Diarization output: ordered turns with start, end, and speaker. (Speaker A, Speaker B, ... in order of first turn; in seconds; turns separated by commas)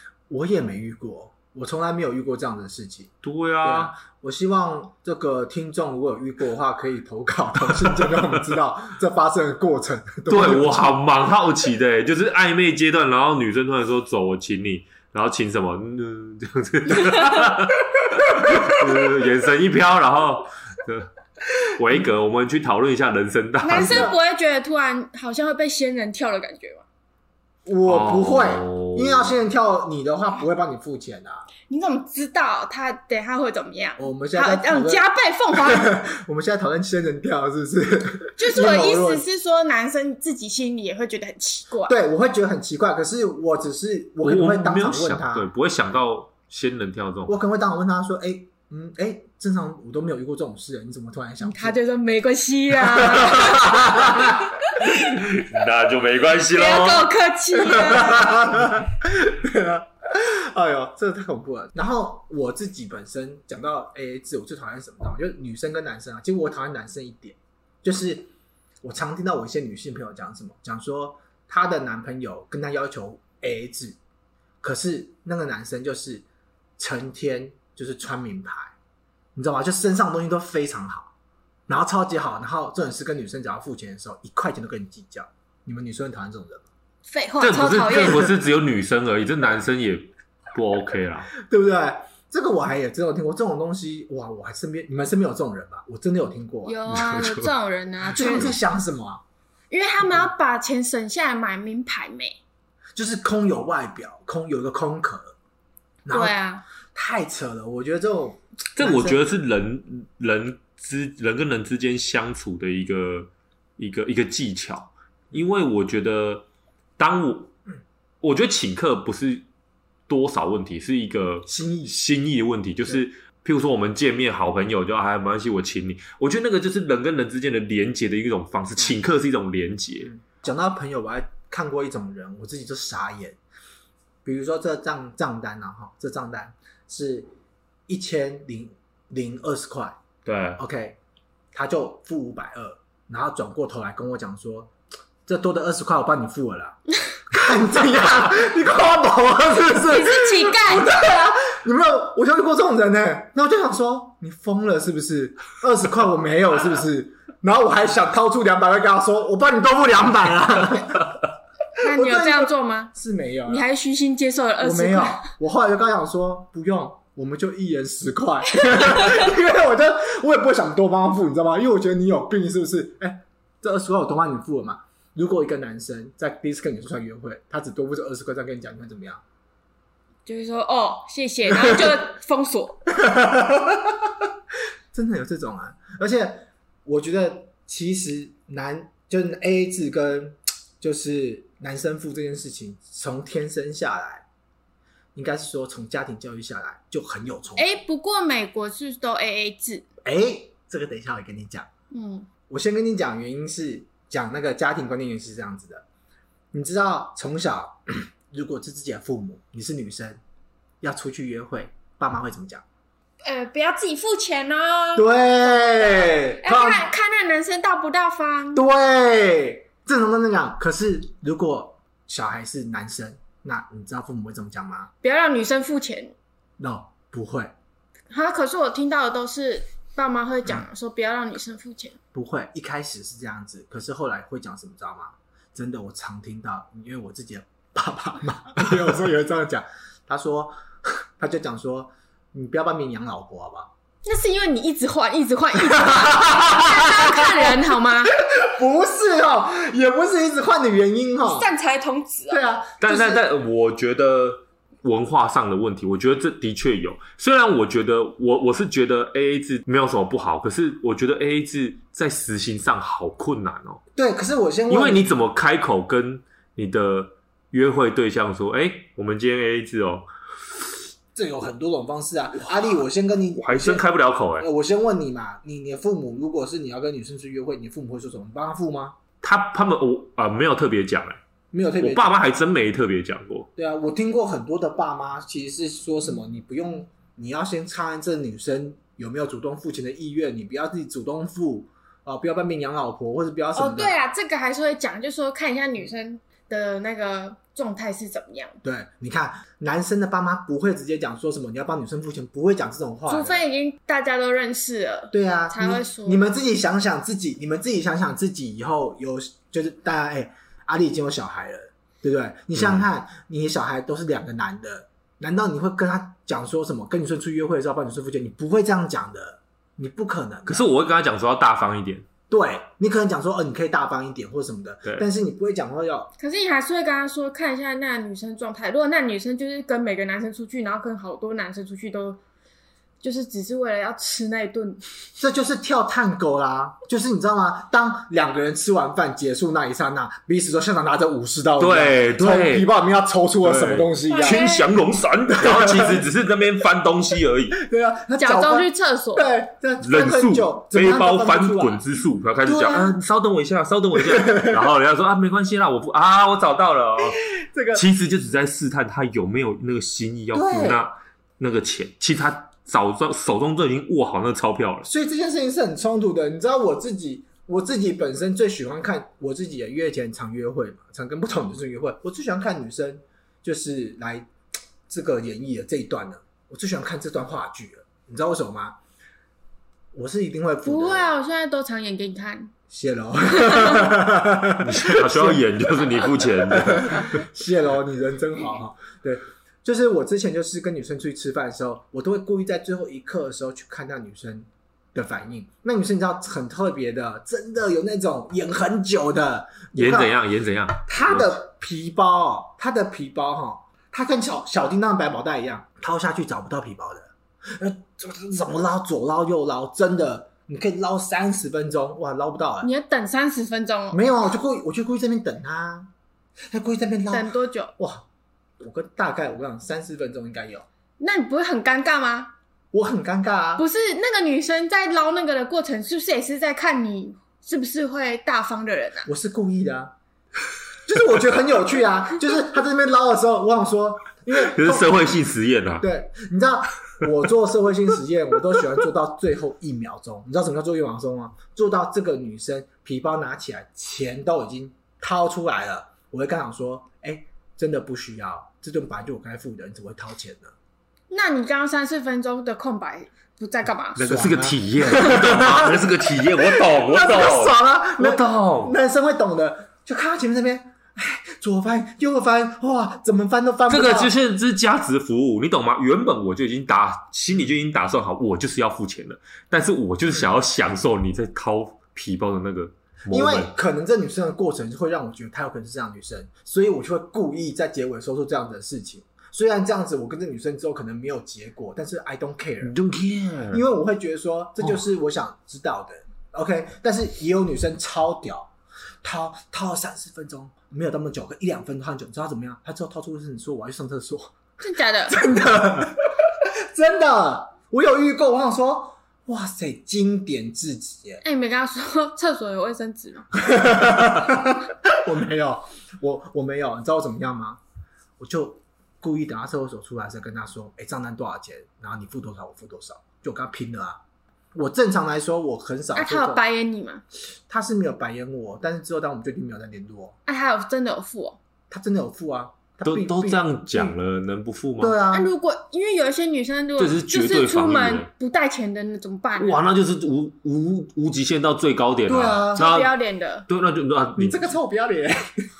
Speaker A: 0.3-11.0, Speaker B: 3.2-3.9, Speaker B: 7.8-8.3, Speaker B: 10.3-21.1, Speaker B: 21.6-24.1, Speaker C: 23.6-26.8, Speaker A: 23.7-24.1, Speaker A: 27.6-31.5, Speaker B: 27.9-29.4, Speaker C: 31.7-36.0, Speaker A: 34.0-39.2, Speaker C: 38.4-41.9, Speaker A: 41.9-45.5, Speaker B: 44.2-47.3, Speaker A: 47.3-51.8, Speaker C: 51.4-55.1, Speaker A: 52.9-54.4, Speaker B: 53.4-54.0, Speaker B: 54.8-57.1, Speaker C: 56.5-58.5, Speaker A: 57.6-68.3, Speaker A: 68.8-74.0, Speaker A: 74.6-76.2, Speaker A: 76.8-78.7, Speaker A: 79.3-81.1, Speaker A: 81.7-86.7, Speaker C: 87.1-88.3, Speaker B: 87.4-91.3, Speaker A: 91.4-96.8, Speaker C: 96.6-98.6, Speaker B: 96.9-97.5, Speaker A: 98.1-99.2, Speaker C: 99.7-102.4, Speaker A: 102.9-105.3, Speaker A: 106.0-106.4, Speaker C: 106.1-106.6, Speaker A: 106.9-109.2, Speaker B: 108.8-116.4, Speaker B: 117.0-117.5, Speaker B: 118.2-119.4, Speaker B: 120.1-130.1, Speaker A: 121.5-121.9, Speaker A: 130.1-133.4, Speaker A: 134.2-137.3, Speaker A: 137.9-140.0, Speaker B: 140.2-140.6, Speaker A: 140.6-141.0, Speaker A: 141.5-144.7, Speaker A: 145.2-161.2, Speaker C: 149.8-151.3, Speaker C: 161.8-162.9, Speaker A: 161.8-163.7, Speaker C: 163.5-165.3, Speaker A: 164.6-179.2, Speaker C: 168.6-169.2, Speaker C: 180.2-182.8, Speaker A: 181.6-181.9, Speaker A: 182.9-184.1, Speaker A: 184.9-194.2, Speaker A: 195.1-197.7, Speaker C: 197.5-199.9, Speaker A: 200.0-201.7, Speaker C: 201.9-202.3, Speaker A: 202.5-205.8, Speaker A: 206.5-210.2, Speaker A: 210.8-212.6, Speaker C: 213.2-218.7, Speaker A: 214.9-216.9, Speaker A: 218.5-224.9, Speaker C: 225.0-226.1, Speaker A: 226.6-227.5, Speaker C: 228.1-232.0, Speaker A: 232.1-243.7, Speaker C: 244.0-248.1, Speaker A: 245.6-251.5, Speaker C: 251.2-252.4, Speaker A: 252.3-253.2, Speaker B: 252.8-263.8, Speaker A: 263.9-265.1, Speaker B: 264.7-270.1, Speaker A: 271.1-273.9, Speaker B: 273.4-274.5, Speaker A: 274.4-279.0, Speaker B: 279.2-281.2, Speaker A: 281.5-282.1, Speaker B: 281.8-283.5, Speaker A: 283.6-293.9, Speaker C: 293.6-298.6, Speaker A: 298.6-303.4, Speaker C: 303.1-306.2, Speaker A: 305.1-320.7, Speaker B: 312.6-312.8, Speaker B: 320.4-322.0, Speaker A: 322.3-326.1, Speaker C: 326.2-332.2, Speaker C: 333.0-334.8, Speaker A: 335.2-344.4, Speaker B: 341.6-342.7, Speaker B: 343.4-347.6, Speaker C: 344.1-344.7, Speaker A: 345.3-346.0, Speaker A: 347.5-351.8, Speaker C: 348.2-349.3, Speaker B: 349.8-364.9, Speaker A: 352.4-352.9, Speaker A: 357.4-357.8, Speaker A: 360.3-360.9, Speaker A: 364.8-374.3, Speaker A: 374.9-378.8, Speaker A: 379.9-381.1, Speaker C: 380.6-382.5, Speaker A: 382.7-400.2, Speaker C: 383.3-383.9, Speaker B: 384.6-387.2, Speaker B: 399.7-401.4, Speaker A: 400.9-412.7, Speaker C: 412.6-414.0, Speaker A: 413.9-415.9, Speaker A: 416.5-418.0, Speaker C: 417.1-417.7, Speaker A: 418.6-420.6, Speaker C: 421.0-422.3, Speaker A: 422.7-423.6, Speaker C: 423.6-429.1, Speaker A: 429.1-429.9, Speaker A: 430.8-435.1, Speaker B: 434.3-435.9, Speaker A: 435.8-450.5, Speaker C: 451.1-454.0, Speaker B: 453.9-458.7, Speaker A: 454.0-464.1, Speaker B: 463.7-473.5, Speaker A: 473.1-482.7, Speaker B: 482.6-483.6, Speaker A: 483.5-488.5, Speaker A: 489.0-494.3, Speaker C: 494.6-495.2, Speaker A: 495.1-501.2, Speaker C: 501.2-503.4, Speaker A: 503.4-507.6, Speaker A: 508.2-514.0, Speaker A: 514.5-516.4, Speaker C: 515.9-517.0, Speaker A: 517.5-520.1, Speaker C: 520.2-521.4, Speaker A: 521.7-523.9, Speaker B: 522.8-525.0, Speaker A: 524.8-525.3, Speaker C: 525.1-529.6, Speaker B: 526.8-528.1, Speaker B: 529.4-532.9, Speaker A: 532.1-532.7, Speaker C: 532.5-533.5, Speaker B: 533.5-534.6, Speaker A: 534.1-535.2